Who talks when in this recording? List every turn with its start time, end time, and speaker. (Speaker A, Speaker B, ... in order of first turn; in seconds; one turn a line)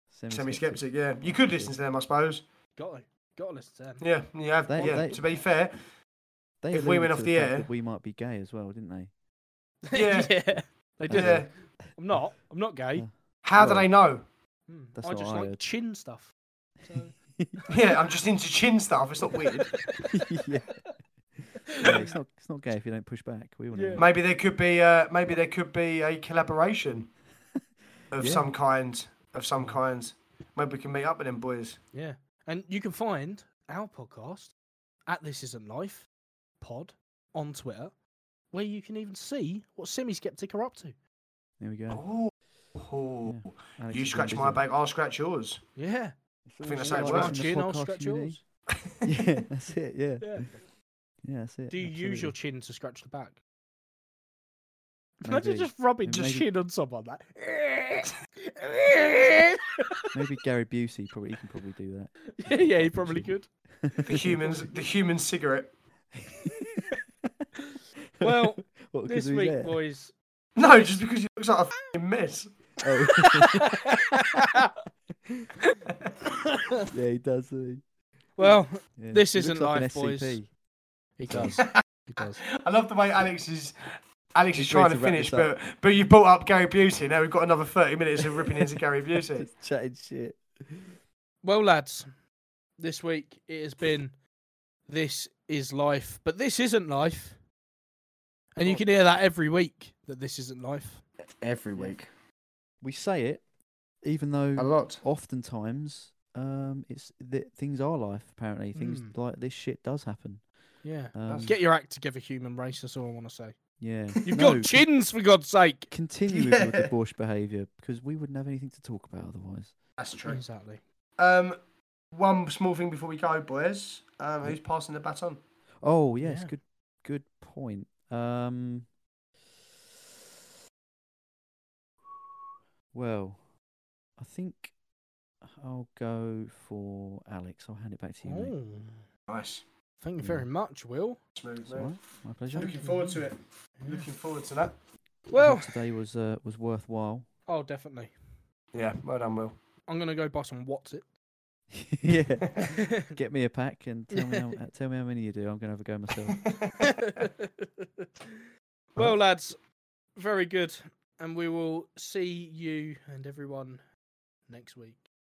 Speaker A: 0.1-1.8
Speaker B: 0.3-2.4
Speaker C: 2.8-4.0
Speaker B: 4.0-5.8
Speaker A: 4.7-5.2
Speaker C: 4.8-5.1
Speaker A: 6.6-9.1
Speaker B: 6.7-7.7
Speaker C: 9.9-13.1
Speaker B: 9.9-10.5
Speaker B: 11.1-11.5
Speaker A: 11.1-11.5
Speaker A: 12.9-13.9
Speaker B: 13.4-14.2
Speaker C: 14.7-17.1
Speaker A: 14.9-15.6
Speaker A: 16.9-17.7
Speaker B: 17.7-19.8
Speaker C: 19.7-20.1
Speaker A: 20.1-20.8
Speaker A: 21.4-24.1
Speaker C: 21.8-22.2
Speaker C: 23.7-24.1
Speaker B: 24.0-27.1
Speaker B: 28.1-31.8
Speaker A: 28.2-28.5
Speaker C: 31.9-34.5
Speaker C: 35.1-36.1
Speaker C: 36.6-38.0
Speaker C: 38.5-41.0
Speaker A: 41.6-42.0
Speaker B: 41.9-45.6
Speaker A: 43.2-44.6
Speaker C: 45.8-46.1
Speaker A: 46.5-48.4
Speaker B: 46.6-47.4
Speaker C: 46.7-48.4
Speaker A: 49.0-50.6
Speaker C: 50.2-50.6
Speaker A: 51.2-52.4
Speaker C: 51.7-53.4
Speaker C: 55.2-60.1
Speaker A: 55.2-56.5
Speaker B: 56.1-56.4
Speaker A: 60.1-64.4
Speaker C: 62.3-63.5
Speaker B: 64.0-65.7
Speaker C: 64.4-64.7
Speaker A: 66.5-67.5
Speaker C: 67.7-70.1
Speaker A: 68.2-69.8
Speaker B: 70.6-72.5
Speaker A: 72.8-73.9
Speaker C: 73.2-74.7
Speaker A: 75.3-75.5
Speaker C: 76.5-76.9
Speaker A: 76.9-77.8
Speaker C: 78.4-80.4
Speaker A: 79.0-80.5
Speaker C: 81.2-82.4
Speaker A: 81.3-81.6
Speaker B: 82.2-83.7
Speaker B: 84.3-89.5
Speaker A: 84.5-85.5
Speaker A: 89.2-91.0
Speaker C: 91.4-92.2
Speaker C: 92.8-94.1
Speaker C: 94.9-97.4
Speaker C: 98.6-101.0
Speaker B: 101.2-102.1
Speaker A: 102.8-103.4
Speaker A: 104.0-110.5
Speaker B: 104.6-105.0
Speaker C: 108.8-109.2
Speaker C: 110.8-113.6
Speaker A: 111.1-111.5
Speaker B: 111.3-111.5
Speaker A: 113.8-114.9
Speaker C: 114.2-115.9
Speaker A: 115.9-119.8
Speaker B: 116.3-116.9
Speaker B: 120.0-120.5
Speaker C: 120.3-120.8
Speaker B: 121.2-121.6
Speaker B: 122.1-125.4
Speaker A: 125.8-128.9
Speaker C: 126.2-126.5
Speaker A: 132.9-133.4
Speaker A: 134.2-134.7
Speaker A: 135.4-138.5
Speaker C: 138.2-139.1
Speaker B: 139.3-139.6
Speaker C: 140.0-141.2
Speaker A: 140.2-140.5
Speaker B: 141.4-142.0
Speaker A: 141.7-143.1
Speaker B: 142.5-144.8
Speaker C: 143.8-144.1
Speaker C: 145.3-145.8
Speaker A: 145.3-147.3
Speaker C: 147.5-148.4
Speaker B: 148.7-149.6
Speaker C: 149.9-151.1
Speaker A: 151.7-156.5
Speaker C: 152.6-153.1
Speaker C: 154.1-154.6
Speaker B: 156.4-156.8
Speaker C: 156.8-158.4
Speaker C: 159.0-159.6
Speaker C: 160.1-163.8
Speaker C: 164.5-165.1